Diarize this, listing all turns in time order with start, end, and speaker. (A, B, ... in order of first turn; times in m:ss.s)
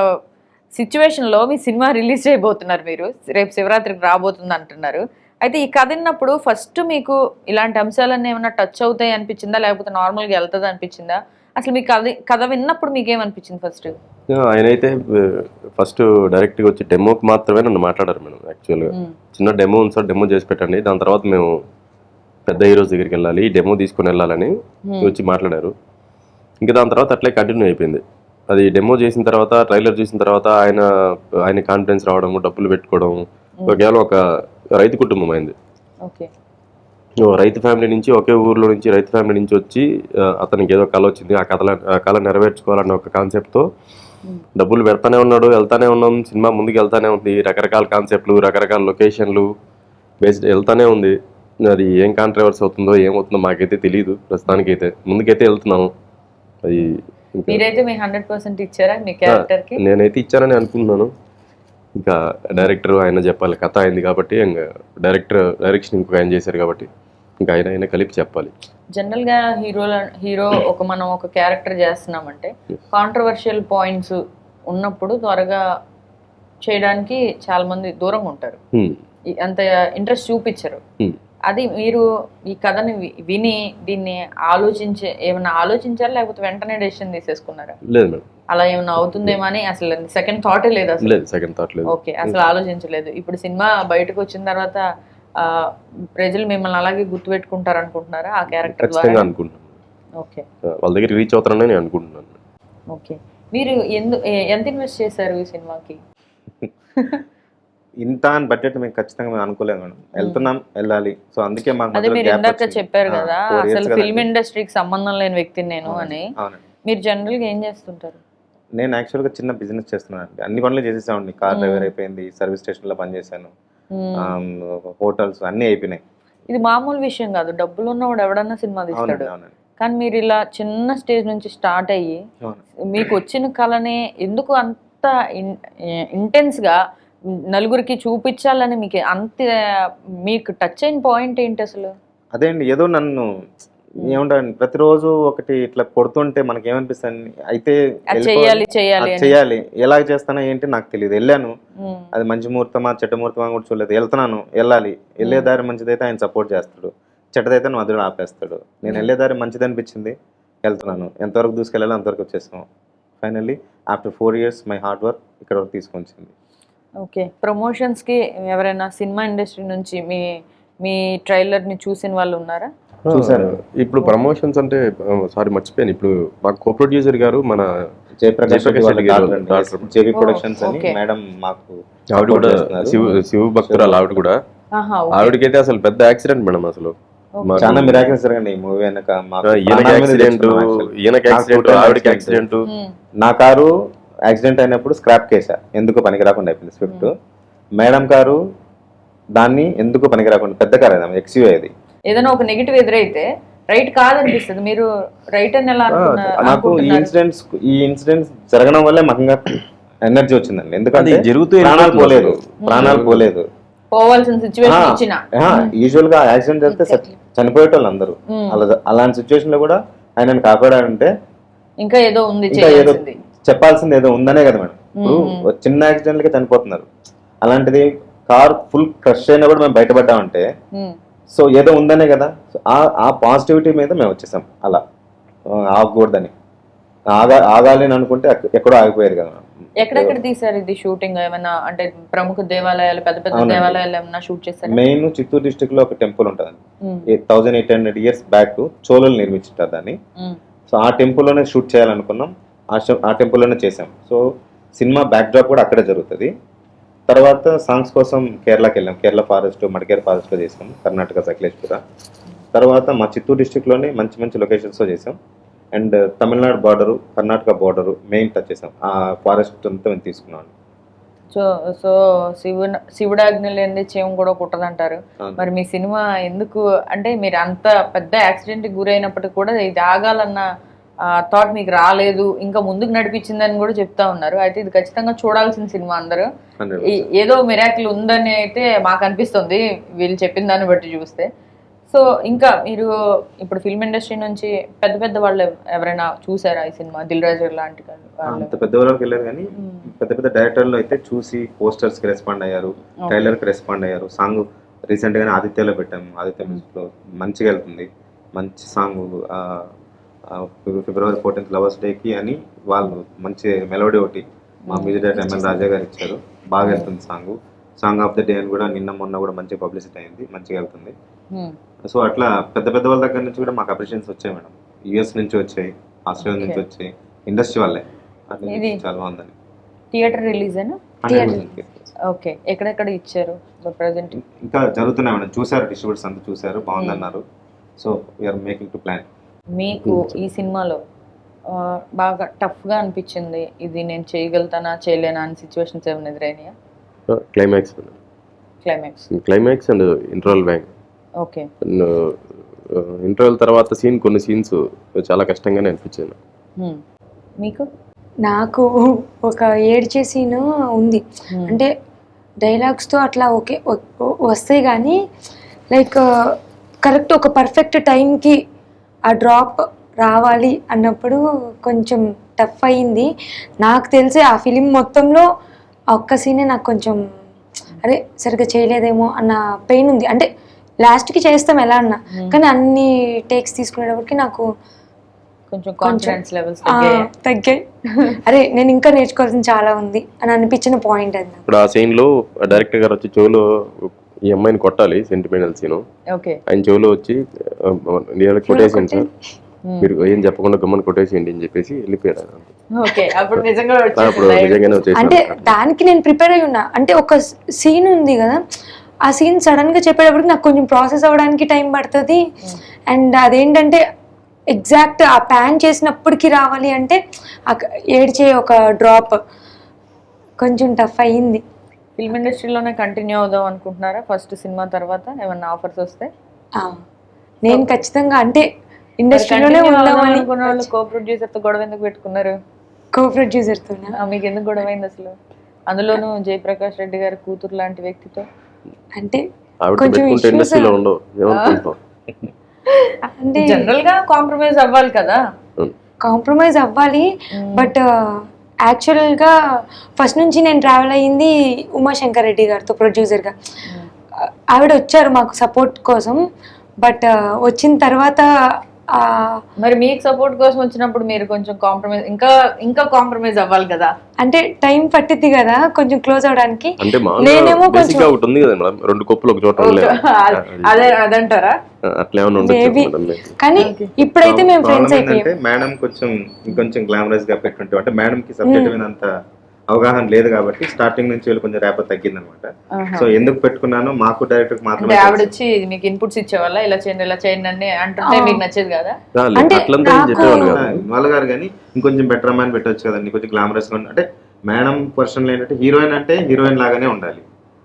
0:00.8-0:13.9 A
0:14.3-0:21.5 B
0:22.5-0:25.7 B
0:24.9-0:25.1 A
0:26.6-0:30.8 B
0:31.4-0:34.2 B
0:34.7-0:35.5 B
0:36.0-0:36.3 A
0:37.2-0:43.6 B
0:44.6-0:49.5 B
0:50.2-0:55.9 B
0:56.6-0:57.6 B
0:56.8-0:59.8 A
0:59.3-1:01.1 B
1:02.0-1:06.9 B
1:07.4-1:08.5 B
1:08.9-1:15.6 A
1:16.6-1:18.6 A
1:19.3-1:20.8 A
1:21.5-1:27.8 A
1:27.9-1:28.2 B
1:28.5-1:31.2 A
1:31.0-1:32.4 B
1:31.9-1:34.8 A
1:35.4-1:35.7 A
1:36.2-1:39.3 A
1:38.6-1:39.7 B
1:40.2-1:40.4 A
1:40.8-1:42.3 B
1:42.9-1:46.0 A
1:48.0-1:54.2 C
1:50.2-1:50.5 A
1:51.9-1:56.3 A
1:55.9-1:56.6 C
1:56.8-1:58.2 A
1:58.8-2:03.5 C
2:01.5-2:01.9 A
2:03.9-2:04.3 A
2:04.2-2:06.0 C
2:06.5-2:12.2 A
2:08.9-2:09.5 C
2:12.9-2:16.8 A
2:17.5-2:19.6 A
2:20.2-2:21.9 A
2:22.3-2:31.5 C
2:28.1-2:29.4 A
2:31.8-2:32.1 A
2:32.1-2:42.6 C
2:35.2-2:35.5 A
2:43.2-2:46.3 C
2:47.0-2:50.3 A
2:50.8-2:52.7 A
2:53.1-2:57.7 B
2:53.1-2:53.6 C
2:58.2-3:03.0 C
2:58.5-2:59.9 B
3:00.1-3:01.0 A
3:02.1-3:04.4 B
3:02.9-3:03.2 A
3:03.6-3:04.2 C
3:04.7-3:05.4 A
3:05.1-3:08.1 B
3:07.4-3:07.8 A
3:07.6-3:12.4 C
3:09.4-3:12.6 B
3:12.6-3:12.9 A
3:13.2-3:13.7 C
3:14.3-3:17.1 C
3:16.8-3:17.1 A
3:17.8-3:18.4 C
3:19.3-3:21.7 C
3:22.1-3:27.1 A
3:25.9-3:26.8 B
3:26.4-3:33.5 C
3:30.9-3:33.3 B
3:32.6-3:33.0 A
3:33.9-3:35.7 A
3:34.6-3:41.1 C
3:38.3-3:38.6 A
3:41.8-3:43.2 A
3:42.5-3:46.9 C
3:45.0-3:45.4 A
3:47.4-3:50.5 C
3:51.3-3:54.8 C
3:55.5-3:56.3 C
3:57.1-4:00.1 C
3:59.8-4:04.8 A
4:03.3-4:03.8 C
4:04.6-4:10.0 C
4:06.8-4:07.1 A
4:10.7-4:14.2 C
4:14.8-4:16.3 C
4:17.1-4:21.8 C
4:22.5-4:25.2 C
4:25.7-4:30.5 C
4:31.3-4:40.4 A
4:41.3-4:46.3 A
4:46.6-4:47.1 C
4:46.9-4:51.3 A
4:51.9-4:58.5 A
4:58.3-5:09.7 C
4:59.6-4:59.9 A
5:10.3-5:20.9 C
5:14.7-5:15.0 A
5:15.2-5:15.6 D
5:16.6-5:16.9 A
5:21.9-5:29.3 C
5:26.2-5:26.6 A
5:28.5-5:28.8 A
5:29.9-5:31.4 A
5:31.0-5:31.9 C
5:31.1-5:31.5 D
5:32.1-5:34.2 A
5:34.2-5:37.2 C
5:36.8-5:37.1 A
5:37.8-5:39.0 C
5:39.5-5:40.8 A
5:39.8-5:40.1 B
5:41.5-5:46.5 A
5:47.1-5:48.0 B
5:48.6-5:49.0 A
5:49.1-5:50.7 B
5:51.2-5:51.5 A
5:51.6-5:52.2 B
5:52.7-5:56.2 B
5:58.2-6:01.7 D
6:01.3-6:01.6 A
6:02.4-6:05.0 D
6:05.7-6:06.0 D
6:06.8-6:08.4 D
6:09.1-6:13.1 D
6:13.6-6:15.3 D
6:15.9-6:17.2 D
6:17.8-6:20.3 D
6:20.8-6:24.4 D
6:22.1-6:22.4 A
6:25.5-6:27.1 A
6:25.8-6:27.6 D
6:28.2-6:31.5 D
6:31.5-6:35.8 B
6:36.1-6:36.4 A
6:36.5-6:39.1 B
6:38.5-6:39.1 D
6:39.8-6:42.5 B
6:42.8-6:44.8 A
6:44.0-6:45.6 B
6:45.0-6:48.4 D
6:49.0-6:52.2 D
6:52.9-6:53.8 D
6:54.5-6:59.2 D
7:00.4-7:01.4 D
7:02.0-7:06.1 A
7:06.6-7:06.8 D
7:07.4-7:08.4 D
7:09.0-7:10.7 D
7:09.1-7:12.4 A
7:12.9-7:14.0 D
7:13.9-7:15.1 A
7:15.7-7:18.2 A
7:18.9-7:19.2 D
7:19.6-7:21.8 B
7:19.8-7:20.8 D
7:21.3-7:21.6 A
7:22.7-7:25.2 A
7:23.2-7:23.7 D
7:26.0-7:29.3 D
7:27.4-7:27.7 A
7:30.0-7:33.3 D
7:34.5-7:36.2 D
7:36.8-7:38.3 D
7:38.9-7:39.4 D
7:39.6-7:43.9 A
7:44.2-7:48.1 D
7:46.8-7:51.0 B
7:49.6-7:51.6 A
7:51.8-7:53.4 B
7:52.4-7:55.3 D
7:53.6-7:53.9 A
7:54.1-7:59.1 C
7:58.4-7:58.8 D
7:59.7-8:05.3 C
8:02.7-8:03.1 A
8:04.8-8:09.0 A
8:08.0-8:08.4 D
8:09.1-8:10.8 B
8:09.3-8:10.6 D
8:10.3-8:17.2 C